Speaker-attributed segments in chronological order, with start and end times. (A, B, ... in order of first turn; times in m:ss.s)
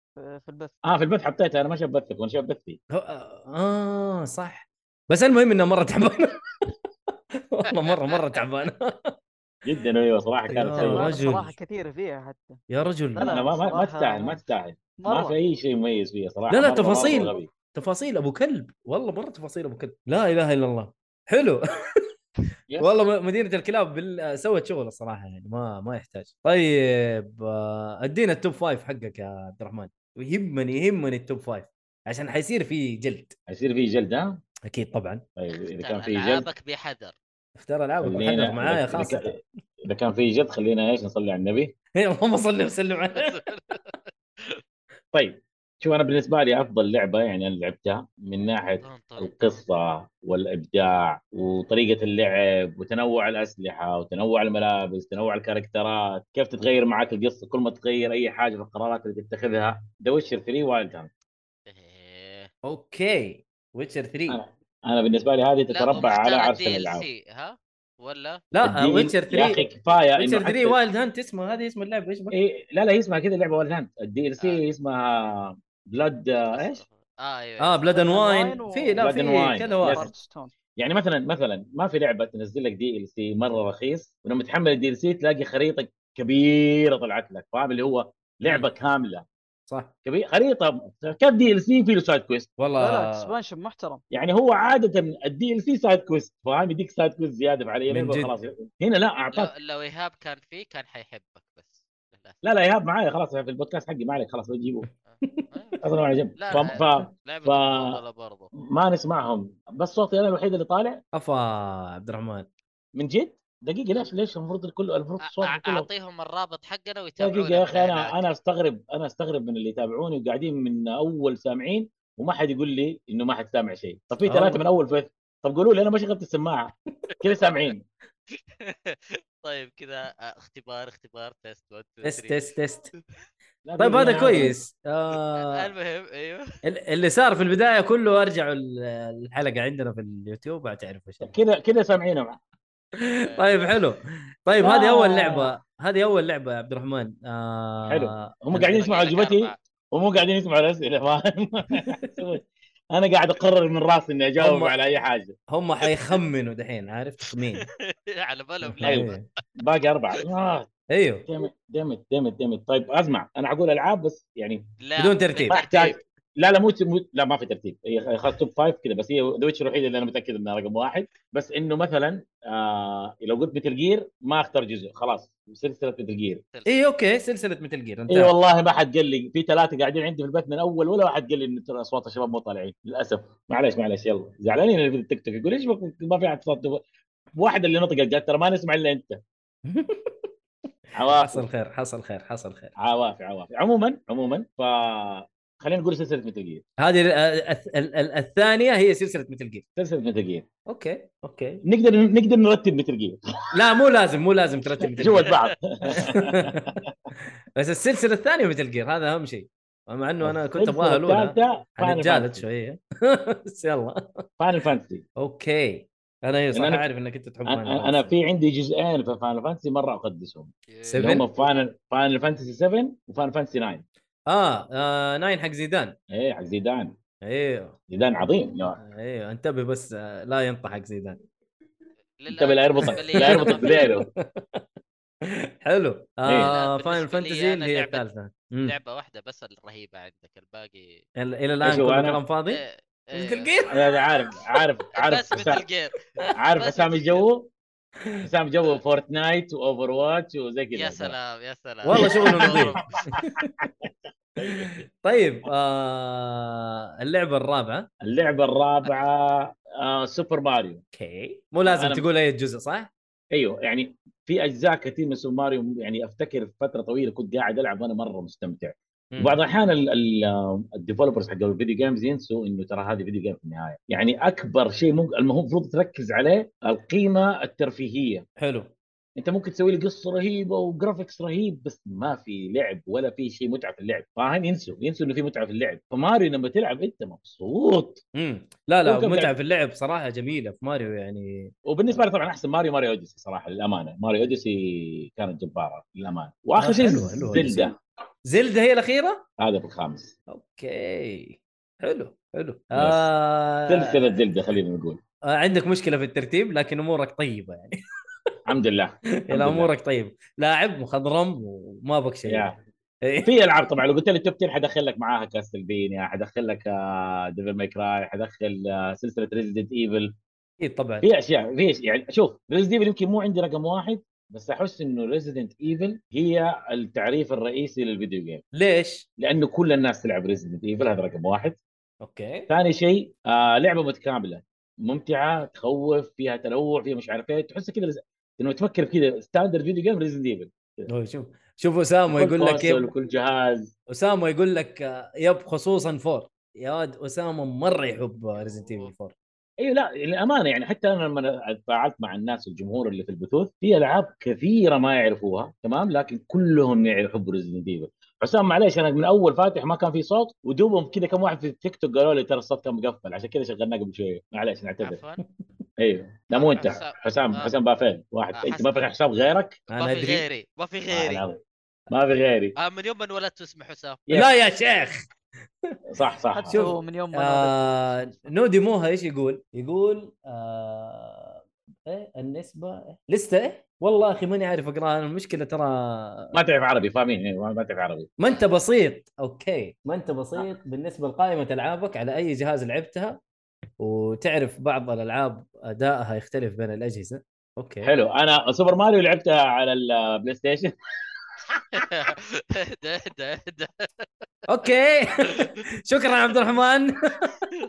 0:00.2-0:00.7 A
0:00.8-0:02.8 B
0:02.9-0:06.4 C
0:07.5-0:09.2 C
0:09.6-0:11.1 B
0:10.5-0:11.6 C
0:10.7-0:12.6 A
0:12.7-0:13.4 C
0:13.2-0:14.4 A
0:13.2-0:17.5 B
0:15.0-0:15.4 A
0:16.5-0:21.6 C
0:22.7-0:23.0 B
0:22.8-0:33.4 C
0:33.5-0:34.4 B
0:34.7-0:35.2 C
0:35.4-0:36.5 B
0:35.5-0:37.2 D
0:37.6-0:39.4 C
0:38.0-0:41.7 B
0:42.0-0:43.4 C
0:43.2-0:44.6 D
0:45.1-1:01.1 B
0:48.8-0:49.6 D
1:01.7-1:02.5 D
1:02.6-1:04.4 C
1:04.3-1:07.0 B
1:05.7-1:08.4 D
1:08.5-1:12.4 C
1:08.6-1:10.8 B
1:12.3-1:16.8 B
1:16.5-1:18.0 D
1:17.6-1:20.1 C
1:18.0-1:19.0 A
1:19.0-1:20.1 B
1:19.8-1:20.5 A
1:20.8-1:29.3 B
1:30.0-1:32.5 B
1:32.6-1:33.3 C
1:32.8-1:34.0 A
1:34.1-1:39.5 B
1:37.9-1:38.3 C
1:39.4-1:42.4 D
1:42.4-1:44.9 B
1:45.0-1:45.8 D
1:45.8-1:48.0 B
1:46.4-1:48.5 D
1:48.6-1:51.0 B
1:51.1-1:52.5 C
1:53.0-1:55.9 B
1:55.2-1:58.2 D
1:57.2-2:07.8 B
2:04.2-2:04.6 C
2:08.6-2:12.6 D
2:12.0-2:12.9 C
2:13.6-2:14.6 B
2:13.8-2:15.7 C
2:15.4-2:16.5 D
2:16.6-2:21.3 C
2:21.2-2:22.4 B
2:23.0-2:28.6 C
2:23.2-2:23.8 D
2:24.6-2:25.5 B
2:27.9-2:35.4 B
2:28.6-2:29.6 D
2:34.4-2:34.8 C
2:35.5-2:37.7 C
2:37.6-2:39.2 D
2:38.6-2:39.2 C
2:38.8-2:40.7 B
2:40.9-2:41.2 C
2:41.3-2:44.7 B
2:44.8-2:46.0 D
2:45.0-2:45.6 C
2:45.5-2:56.4 B
2:56.5-2:56.9 D
2:56.7-2:58.3 C
2:58.1-3:06.8 B
3:07.4-3:09.2 B
3:09.7-3:10.2 C
3:11.0-3:11.4 B
3:11.1-3:12.7 C
3:12.8-3:16.6 B
3:16.8-3:19.6 C
3:19.8-3:20.5 B
3:20.7-3:21.6 C
3:21.6-3:23.2 B
3:23.5-3:25.3 C
3:25.0-3:26.9 B
3:25.9-3:26.8 C
3:27.6-3:34.2 C
3:30.2-3:32.5 B
3:34.4-3:35.0 B
3:35.2-3:38.1 C
3:36.5-3:36.9 B
3:37.5-3:43.8 B
3:40.7-3:41.2 D
3:40.9-3:41.3 C
3:44.3-3:46.0 C
3:46.1-3:47.0 B
3:47.2-3:47.8 C
3:47.9-3:48.8 B
3:48.8-3:51.2 C
3:52.2-3:53.9 D
3:52.3-3:54.1 B
3:52.9-3:54.6 C
3:55.3-3:58.8 C
3:56.5-3:58.0 D
3:58.6-4:01.0 D
4:01.2-4:02.6 C
4:01.6-4:02.2 B
4:02.5-4:03.6 D
4:03.1-4:03.7 C
4:03.7-4:05.6 B
4:05.0-4:07.3 D
4:06.4-4:07.5 B
4:08.2-4:11.2 B
4:10.7-4:13.0 D
4:11.8-4:13.5 C
4:11.9-4:13.9 B
4:14.4-4:14.8 B
4:14.6-4:17.9 C
4:18.0-4:20.8 B
4:20.9-4:22.9 C
4:21.6-4:22.0 B
4:23.3-4:38.2 B
4:29.1-4:29.4 C
4:38.4-4:38.7 C
4:39.2-4:48.0 B
4:48.2-4:51.5 C
4:48.8-4:49.3 B
4:51.7-4:57.8 B
4:56.6-4:57.7 C
4:58.2-4:59.2 C
4:59.4-5:00.2 B
5:00.3-5:04.2 C
5:02.8-5:03.1 B
5:03.7-5:05.0 B
5:05.3-5:07.8 C
5:08.5-5:09.7 B
5:09.2-5:12.5 C
5:12.3-5:12.6 B
5:13.2-5:20.1 B
5:20.6-5:21.1 C
5:21.0-5:28.4 B
5:28.5-5:29.1 C
5:29.2-5:31.6 B
5:32.0-5:32.5 C
5:32.5-5:40.9 B
5:40.9-5:42.9 C
5:42.1-5:43.7 B
5:43.9-5:49.1 C
5:48.3-5:48.9 D
5:49.6-6:05.0 B
6:04.8-6:05.2 D
6:05.8-6:09.6 B
6:06.3-6:07.5 D
6:08.4-6:08.8 D
6:09.7-6:10.2 C
6:09.8-6:11.2 D
6:10.9-6:11.4 B
6:11.9-6:12.5 B
6:12.6-6:14.0 D
6:14.1-6:14.3 B
6:14.1-6:15.1 C
6:15.9-6:16.6 B
6:16.3-6:18.3 A
6:16.5-6:26.4 C
6:26.3-6:28.1 B
6:28.2-6:33.2 C
6:33.8-6:37.9 C
6:37.8-6:40.7 B
6:41.7-6:44.1 D
6:44.5-6:47.4 C